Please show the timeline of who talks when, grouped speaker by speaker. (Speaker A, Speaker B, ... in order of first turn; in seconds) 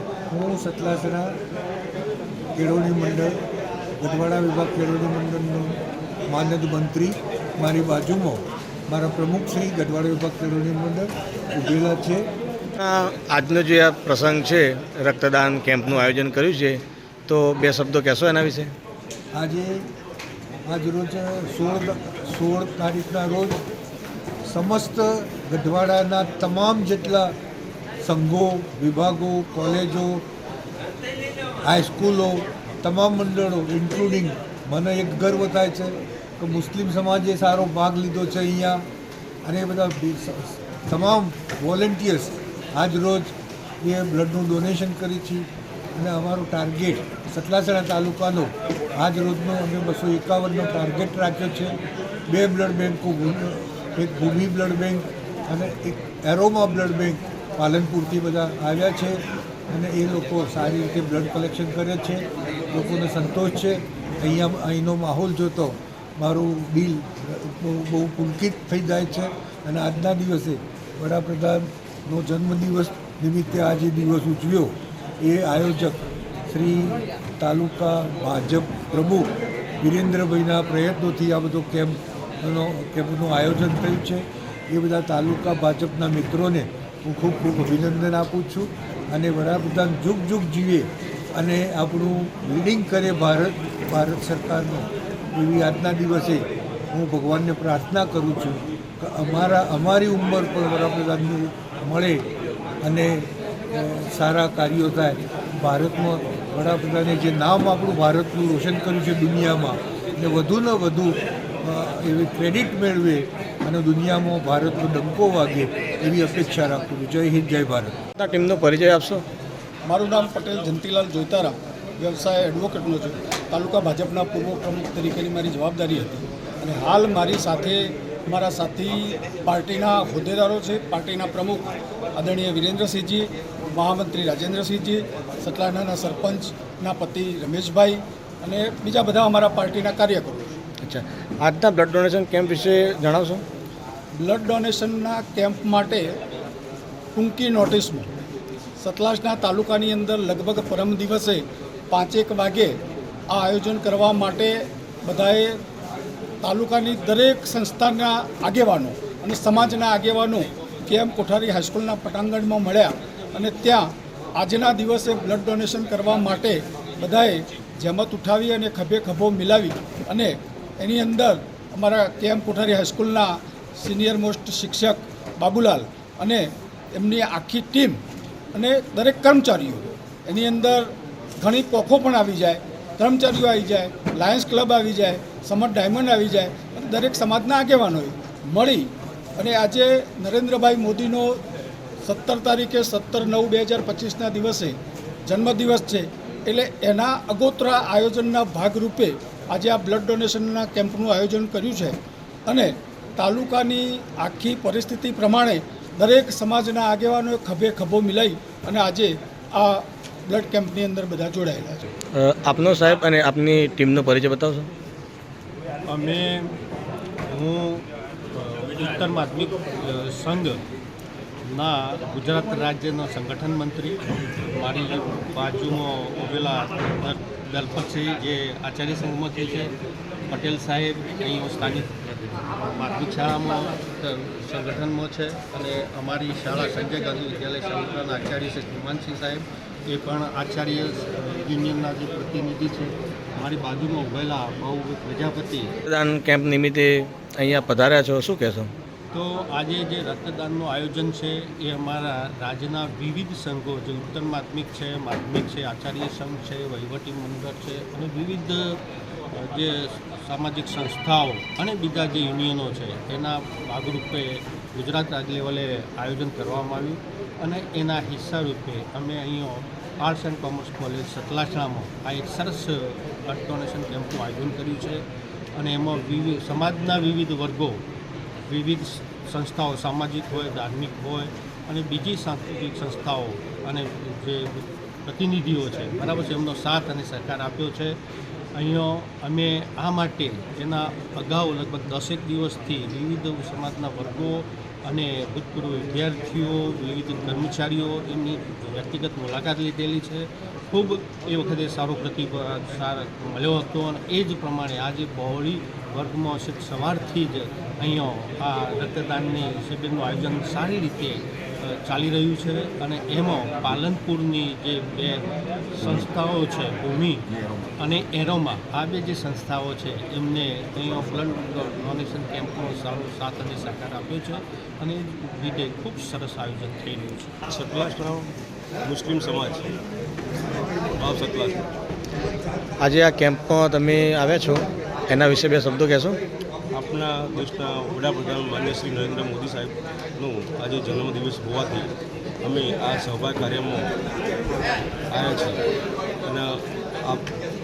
Speaker A: 0.3-1.4, 2.5-3.4, 4.0-5.8, 6.3-12.3, 19.3-19.9, 20.7-23.6, 24.5-27.3, 28.0-30.2, 31.6-38.8, 39.4-51.8, 52.3-59.2, 59.7-102.2, 102.8-117.9
Speaker B: 12.8-18.7, 118.2-119.2, 140.8-143.4, 212.1-214.7, 245.9-248.7, 332.8-336.2
Speaker C: 119.8-140.5, 144.2-146.1, 147.1-148.1, 148.8-152.7, 153.3-155.5, 156.4-178.0, 178.5-191.4, 192.0-194.7, 195.3-201.9, 202.5-211.9
Speaker D: 215.9-216.5, 217.3-220.6, 221.5-224.0, 224.6-229.7, 230.3-245.7, 249.1-258.8, 259.3-275.0, 275.6-277.8, 278.5-288.0, 288.6-315.2, 315.8-317.2, 317.8-327.3
Speaker E: 327.5-328.3, 328.8-329.8, 331.0-331.7, 336.7-343.9, 345.1-345.6, 346.2-347.2